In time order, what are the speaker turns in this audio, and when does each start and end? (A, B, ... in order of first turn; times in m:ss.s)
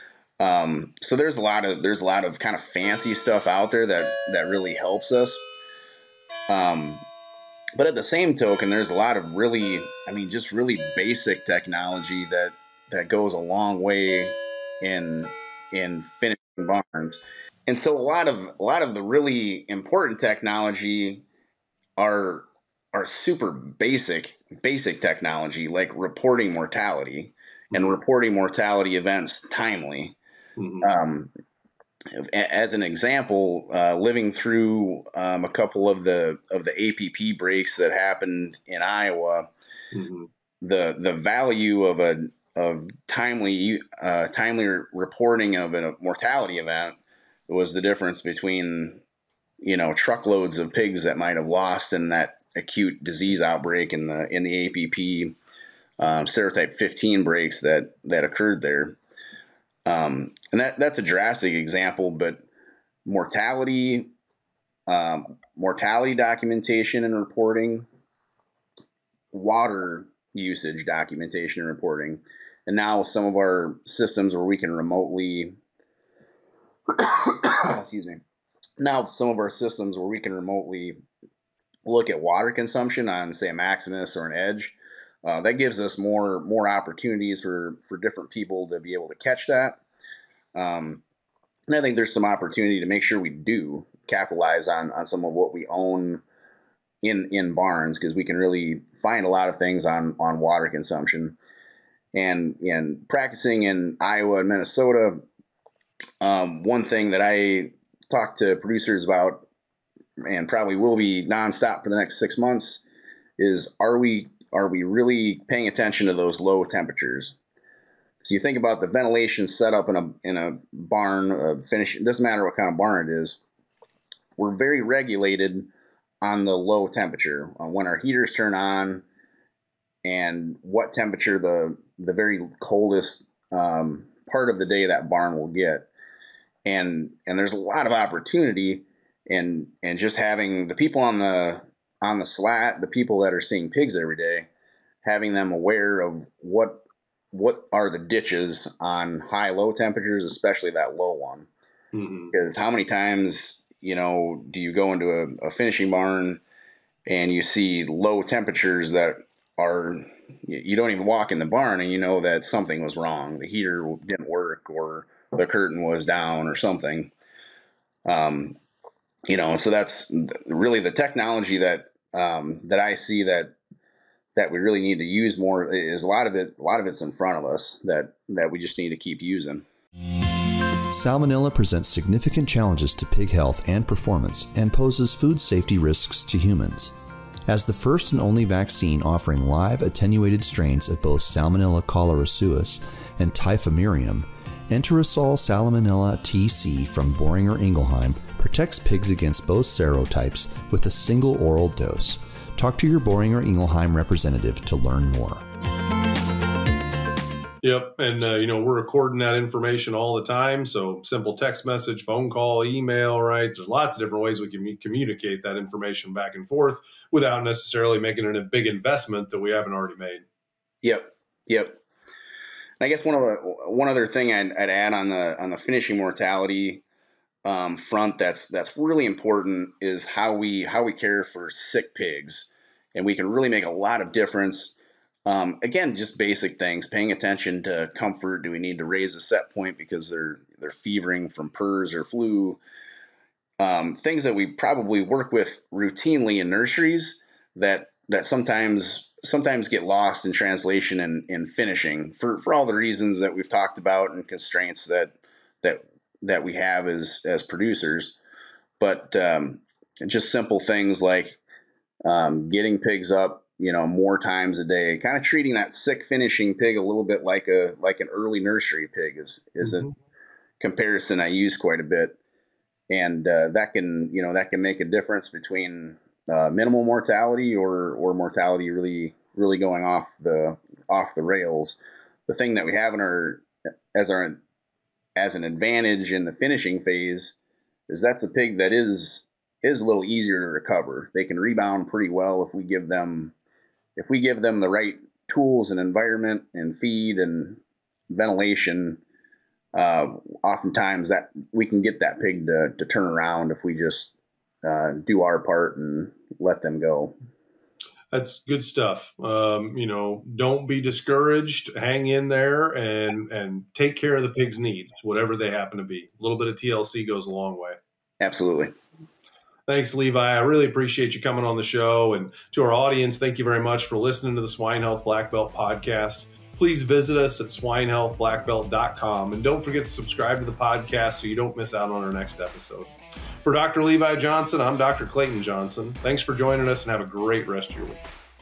0:00.4-0:05.5 A
0:06.5-0:07.0 A
0:07.8-0:21.2 A
0:22.0-0:30.2 A
0:30.6-0:30.9 B
0:30.8-0:31.3 A
0:32.2-0:39.5 A
0:39.9-0:40.3 B
0:40.6-0:47.0 A
0:47.5-0:49.0 A
0:49.6-0:55.4 A
0:56.0-0:59.0 A
0:59.9-1:02.4 A
1:03.1-1:04.1 A
1:04.9-1:07.9 A
1:09.3-1:15.6 A
1:16.9-1:18.2 A
1:18.8-1:21.0 A
1:21.8-1:29.8 A
1:30.6-1:31.0 A
1:31.7-1:36.2 A
1:37.0-1:41.4 A
1:42.1-1:45.2 A
1:46.2-1:49.4 A
1:50.3-1:52.8 A
1:53.4-1:57.4 A
1:58.2-2:03.4 A
2:04.4-2:05.7 A
2:06.2-2:09.1 A
2:10.0-2:15.9 A
2:16.7-2:24.5 A
2:25.0-2:31.5 A
2:31.9-2:32.3 B
2:32.3-2:36.4 A
2:37.1-2:47.1 A
2:48.1-2:48.6 A
2:49.3-2:53.6 A
2:54.4-2:59.6 A
3:00.9-3:06.9 C
3:07.5-3:25.4 C
3:27.6-3:40.3 B
3:40.8-3:41.8 A
3:42.8-3:46.8 A
3:47.4-4:02.6 A
4:03.6-4:18.2 A
4:18.8-4:21.4 A
4:22.1-4:29.9 A
4:30.6-4:32.2 A
4:32.9-4:44.4 A
4:45.2-4:47.4 A
4:47.9-4:53.3 A
4:54.0-4:59.0 A
4:59.8-5:07.1 A
5:08.1-5:17.8 B
5:18.2-5:18.7 A
5:19.7-5:32.9 B
5:33.4-5:38.0 B